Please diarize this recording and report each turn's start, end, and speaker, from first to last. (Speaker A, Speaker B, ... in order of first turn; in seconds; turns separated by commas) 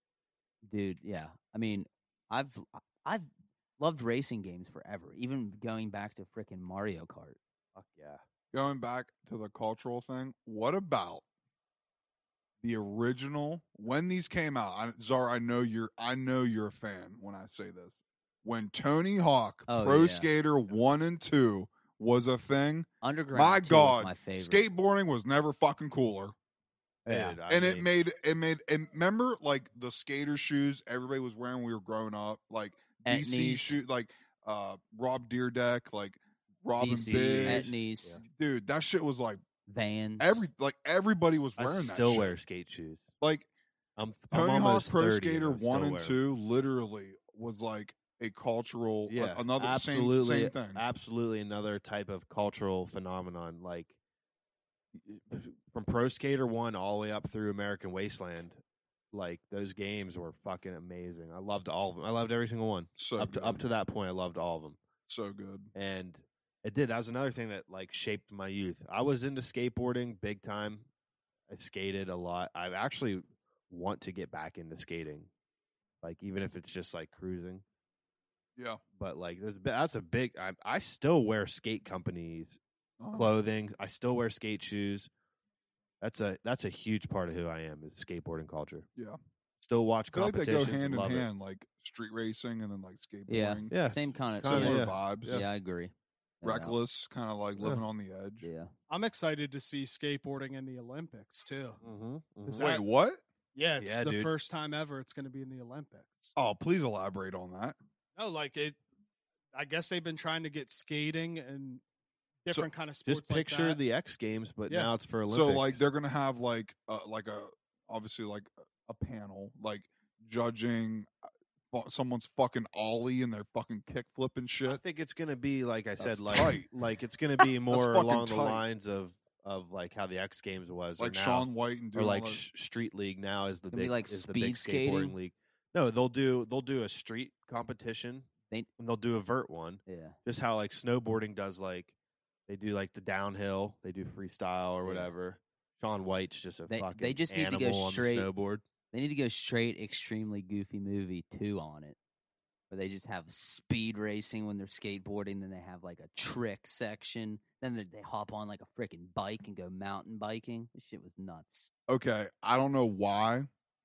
Speaker A: 0.6-7.4, Speaker B: 7.7-8.2, Speaker C: 8.5-11.2, Speaker C: 12.6-26.3, Speaker A: 19.7-20.3, Speaker A: 23.0-24.6, Speaker A: 27.1-27.4, Speaker B: 27.1-27.9, Speaker C: 27.5-37.7, Speaker A: 33.0-33.8, Speaker A: 36.8-38.2, Speaker B: 37.0-38.2, Speaker C: 38.2-39.4, Speaker A: 39.7-40.4, Speaker C: 40.2-42.4, Speaker B: 41.6-43.1, Speaker C: 43.2-43.5, Speaker B: 44.0-46.2, Speaker C: 44.3-50.8, Speaker B: 49.1-53.9, Speaker B: 54.9-58.6, Speaker B: 59.1-64.8, Speaker C: 63.0-63.6, Speaker C: 65.1-65.7, Speaker B: 65.7-70.9, Speaker B: 71.5-75.3, Speaker B: 76.0-77.6, Speaker B: 79.0-82.6, Speaker C: 83.0-83.3, Speaker B: 83.1-85.1, Speaker B: 86.0-88.9, Speaker B: 89.6-91.3, Speaker C: 90.1-93.8, Speaker A: 93.3-96.8, Speaker B: 93.7-95.5, Speaker C: 94.4-95.4, Speaker C: 96.4-98.5, Speaker A: 98.4-98.7, Speaker D: 98.9-101.8, Speaker B: 101.8-102.7, Speaker D: 102.5-102.8, Speaker C: 102.6-103.2, Speaker D: 103.5-106.3, Speaker B: 103.8-104.3, Speaker C: 106.3-107.8, Speaker D: 108.2-108.8, Speaker D: 109.5-111.8, Speaker D: 112.4-113.8, Speaker B: 113.0-115.8, Speaker C: 115.3-121.1, Speaker C: 121.7-124.8, Speaker B: 124.7-141.9, Speaker C: 126.0-126.7, Speaker C: 127.4-128.6, Speaker C: 131.0-132.4, Speaker A: 133.7-135.2, Speaker A: 139.8-140.2, Speaker B: 142.5-148.6, Speaker A: 144.8-145.1, Speaker A: 146.7-148.3, Speaker A: 148.9-151.9, Speaker A: 152.7-161.7, Speaker C: 161.9-163.5